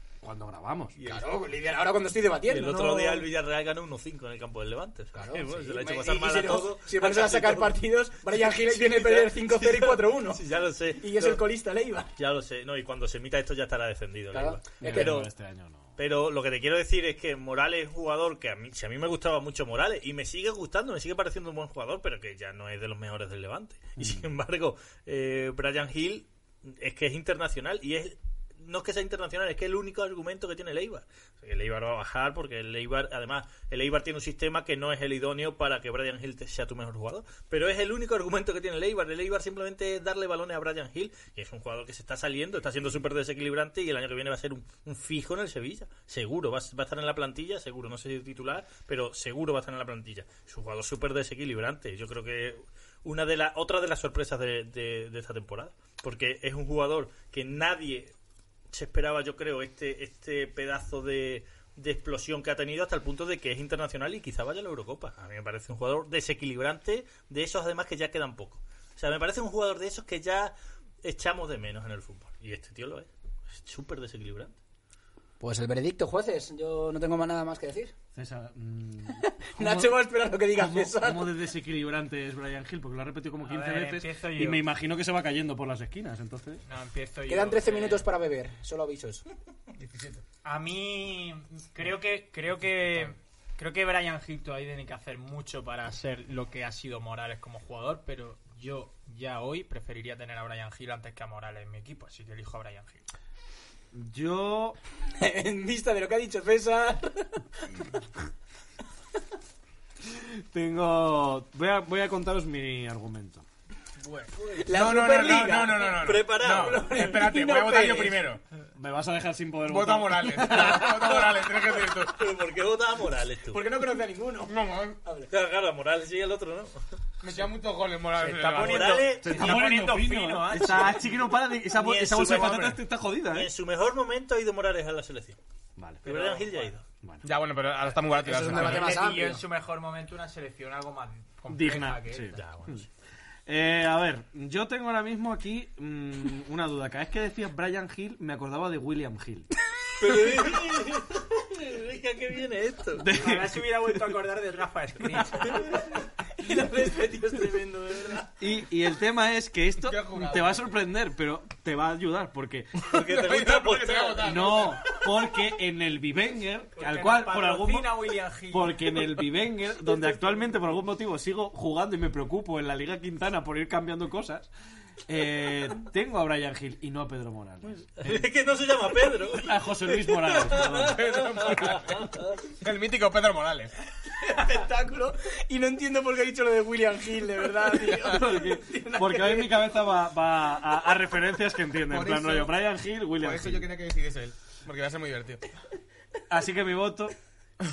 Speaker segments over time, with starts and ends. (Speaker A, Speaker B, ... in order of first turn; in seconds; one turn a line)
Speaker A: 0.2-0.9
Speaker B: 1.0-1.3
Speaker C: 1.0-3.3
Speaker B: 2.5-7.8
Speaker C: 5.1-10.4
Speaker B: 8.4-11.4
Speaker C: 11.0-12.1
Speaker B: 12.2-15.3
Speaker C: 14.3-15.2
Speaker A: 14.8-15.9
Speaker B: 16.0-58.1
Speaker A: 24.0-24.2
Speaker B: 58.7-74.5
Speaker C: 75.4-77.9
Speaker A: 78.1-86.6
Speaker C: 79.2-81.4
Speaker D: 83.4-84.6
Speaker D: 86.7-88.1
Speaker C: 87.3-89.2
Speaker E: 89.8-90.2
Speaker D: 90.4-103.0
Speaker A: 103.9-104.8
Speaker C: 105.2-107.4
Speaker A: 110.0-113.4
Speaker C: 114.5-118.3
Speaker E: 114.5-118.4
Speaker B: 115.8-117.1
Speaker A: 118.7-121.2
Speaker E: 119.6-122.2
Speaker B: 122.0-123.6
Speaker C: 123.5-125.3
Speaker E: 124.4-125.0
Speaker B: 125.3-126.8
Speaker E: 127.2-129.1
Speaker D: 128.2-131.2
Speaker B: 128.5-129.7
Speaker A: 129.2-133.5
Speaker D: 131.8-132.7
Speaker B: 131.8-135.4
Speaker A: 135.8-136.0
Speaker D: 136.0-136.7
Speaker B: 136.0-136.8
Speaker E: 137.2-138.9
Speaker C: 138.2-139.4
Speaker D: 138.4-142.4
Speaker A: 141.5-142.8
Speaker B: 142.3-142.8
Speaker A: 143.4-149.5
Speaker B: 150.0-153.1
Speaker A: 152.9-154.0
Speaker D: 153.1-155.9
Speaker C: 156.4-158.3
Speaker A: 158.4-162.9
Speaker E: 159.8-160.6
Speaker B: 162.9-164.7
Speaker E: 162.9-164.9
Speaker A: 164.2-174.5
Speaker D: 166.8-169.2
Speaker A: 175.1-178.2
Speaker B: 178.0-182.4
Speaker A: 179.3-181.0
Speaker E: 180.8-183.7
Speaker C: 184.1-189.5
Speaker E: 187.7-188.1
Speaker A: 188.0-193.7
Speaker E: 191.9-192.5
Speaker E: 193.2-195.4
Speaker A: 196.3-197.1